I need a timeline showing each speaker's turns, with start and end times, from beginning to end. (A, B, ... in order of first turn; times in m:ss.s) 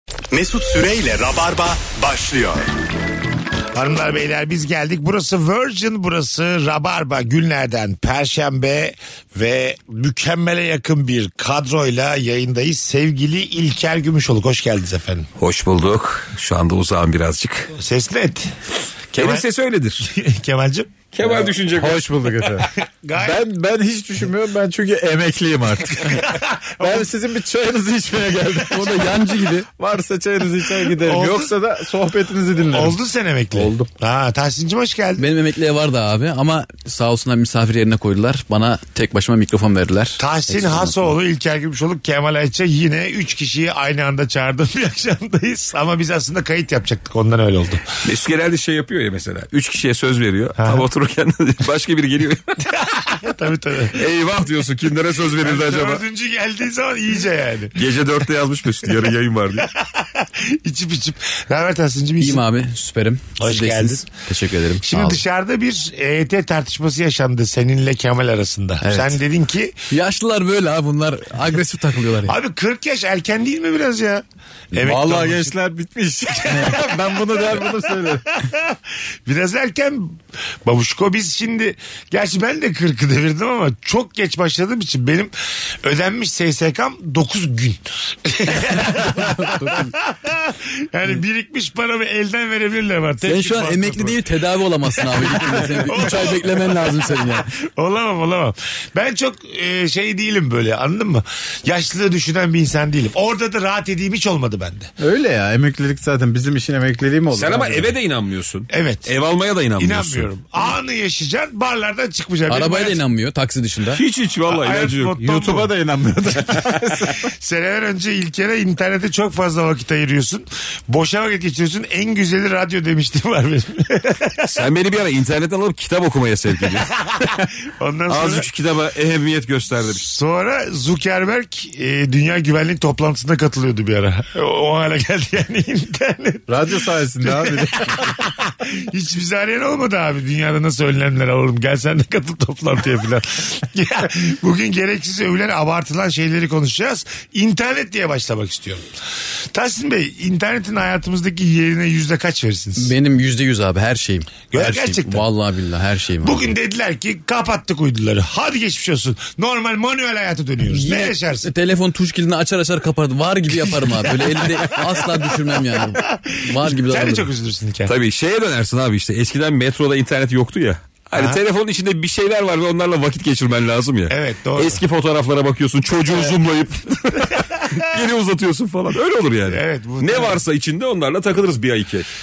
0:00.3-0:02.7 A
0:03.7-0:15.3 B
0:15.4-0:17.7 C
0:17.7-0:18.5 B
0:19.1-0:19.4 B
0:19.2-0:20.1 C
0:20.0-0:20.9 B
0:21.1-0:22.0 C
0:21.2-0:33.0 D
0:22.8-0:23.4 B
0:25.9-0:27.1 B
0:31.0-0:31.5 B
0:32.7-0:35.2 B
0:33.5-0:33.9 D
0:35.2-0:41.1 E
0:40.2-0:47.9 B
0:48.0-0:52.6 C
0:50.6-0:50.9 B
0:52.7-0:54.0 B
0:53.9-0:56.0 C
0:55.2-0:57.9 B
0:57.7-0:59.7 C
0:59.6-1:02.4 B
1:02.2-1:05.2 E
1:03.4-1:04.0 B
1:04.8-1:09.7 B
1:08.8-1:09.2 E
1:09.9-1:12.4 E
1:12.2-1:15.6 B
1:14.8-1:18.2 D
1:16.4-1:34.2 B
1:29.2-1:29.9 E
1:33.2-1:37.5 E
1:35.1-1:44.9 B
1:45.0-1:47.9 D
1:47.3-1:50.3 C
1:48.7-1:49.1 B
1:49.8-1:53.0 B
1:52.5-1:54.0 E
1:53.9-1:55.2 C
1:54.5-1:55.7 B
1:55.2-1:57.3 D
1:57.4-2:04.5 B
2:04.4-2:06.9 C
2:06.7-2:08.5 B
2:08.1-2:10.1 C
2:09.9-2:28.8 B
2:16.5-2:18.0 D
2:29.5-2:32.9 B
2:32.8-2:36.5 E
2:34.5-2:35.3 B
2:36.2-2:41.5 B
2:40.7-2:47.3 E
2:43.5-2:45.4 B
2:45.9-2:47.9 B
2:47.8-3:02.1 C
2:51.2-2:51.4 B
2:54.1-2:54.8 B
2:57.4-2:57.8 B
2:59.5-3:00.4 B